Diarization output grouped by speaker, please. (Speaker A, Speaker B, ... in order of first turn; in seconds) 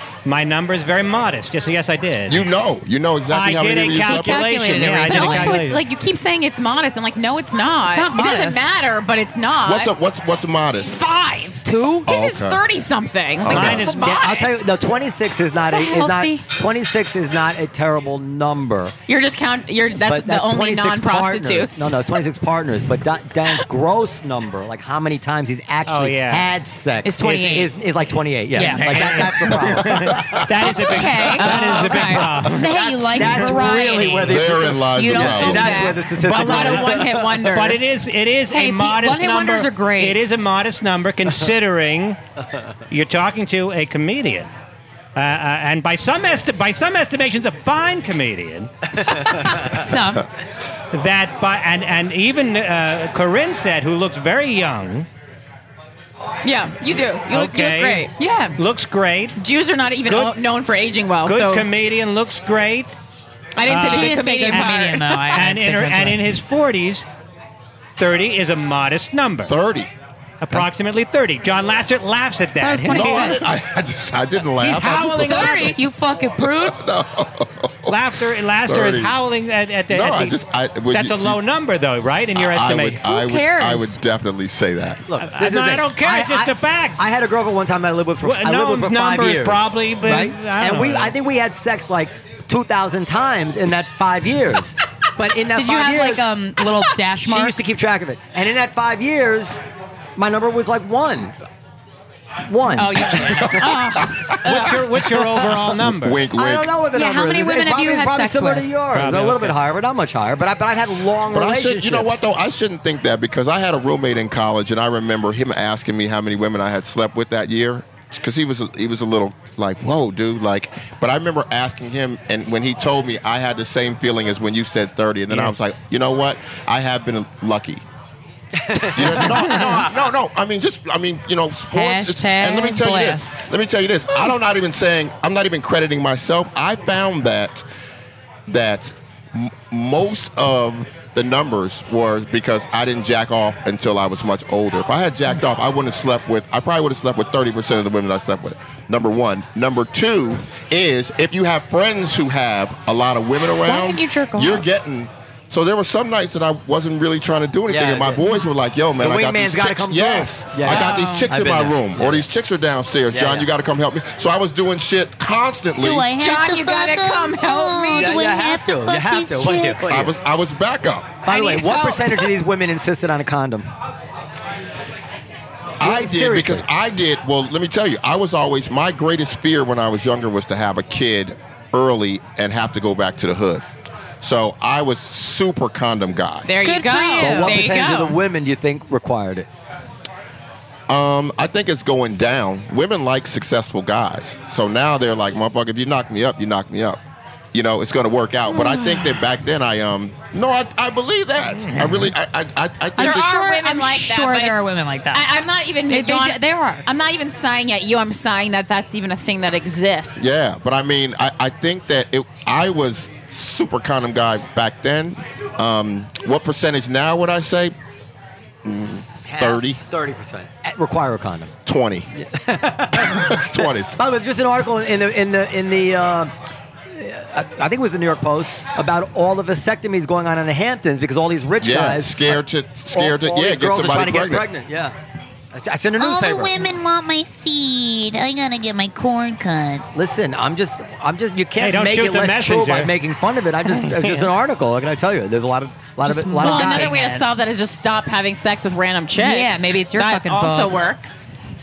Speaker A: 0.2-2.4, 3.3-5.8, 13.5-14.2, 25.9-26.4, 27.2-27.7, 28.6-33.4, 36.2-42.2, 42.9-44.5, 45.1-49.7, 50.9-55.1, 57.3-59.4, 60.1-60.3, 61.3-63.0, 63.7-67.0, 68.0-69.5, 70.4-73.4, 74.6-75.8, 77.9-80.4, 80.9-83.0, 85.2-87.0, 88.2-91.1, 104.4-106.2, 108.9-109.6, 201.7-202.1, 241.6-242.9, 243.9-244.2
Speaker B: 2.3-4.4, 9.6-11.0, 12.1-12.6, 13.4-14.0, 29.5-30.6, 34.2-35.7, 69.5-69.9, 72.8-75.7, 76.4-79.1, 79.9-81.4, 82.3-85.1, 103.3-104.8, 105.4-106.7, 111.3-127.8, 128.9-137.6, 138.5-166.1, 169.9-171.2, 175.8-183.6, 184.2-186.5, 190.9-197.0, 197.5-203.3, 210.2-217.7, 218.6-219.8, 221.6-222.1, 223.0-223.9, 231.6-234.4
Speaker C: 3.9-5.6, 7.9-8.7, 11.6-12.1, 15.7-16.4, 27.1-27.7, 28.6-29.2, 30.9-36.0, 38.5-40.2, 49.6-50.2, 63.7-66.2, 72.6-73.4, 75.0-76.8, 83.0-84.0, 95.5-97.8, 102.7-103.6, 106.9-108.7, 131.7-133.5, 153.6-154.7, 186.6-187.6, 198.6-199.0, 203.0-205.3, 205.9-206.8, 246.0-247.2, 249.2-250.7
Speaker D: 5.1-9.9, 10.8-14.6, 19.1-22.0, 30.6-32.4, 35.2-38.0, 56.4-58.6, 59.4-61.7, 63.5-65.4, 103.6-104.7, 160.7-161.3, 166.1-168.2, 171.3-172.3, 186.4-188.2, 203.0-210.2, 246.4-251.3
Speaker E: 14.0-18.9, 20.0-30.2, 32.8-37.4, 85.1-96.2, 97.2-99.6, 100.2-101.4, 102.5-103.4, 105.2-105.5, 106.3-112.3, 128.6-129.9, 157.7-158.4, 159.0-162.3, 163.1-163.5, 167.9-170.2, 171.2-173.7, 175.8-176.7, 187.2-189.5, 219.2-221.5, 222.2-226.3, 226.9-232.4, 232.9-234.9, 235.5-236.7, 239.9-246.9
Speaker F: 165.8-170.0, 236.0-239.8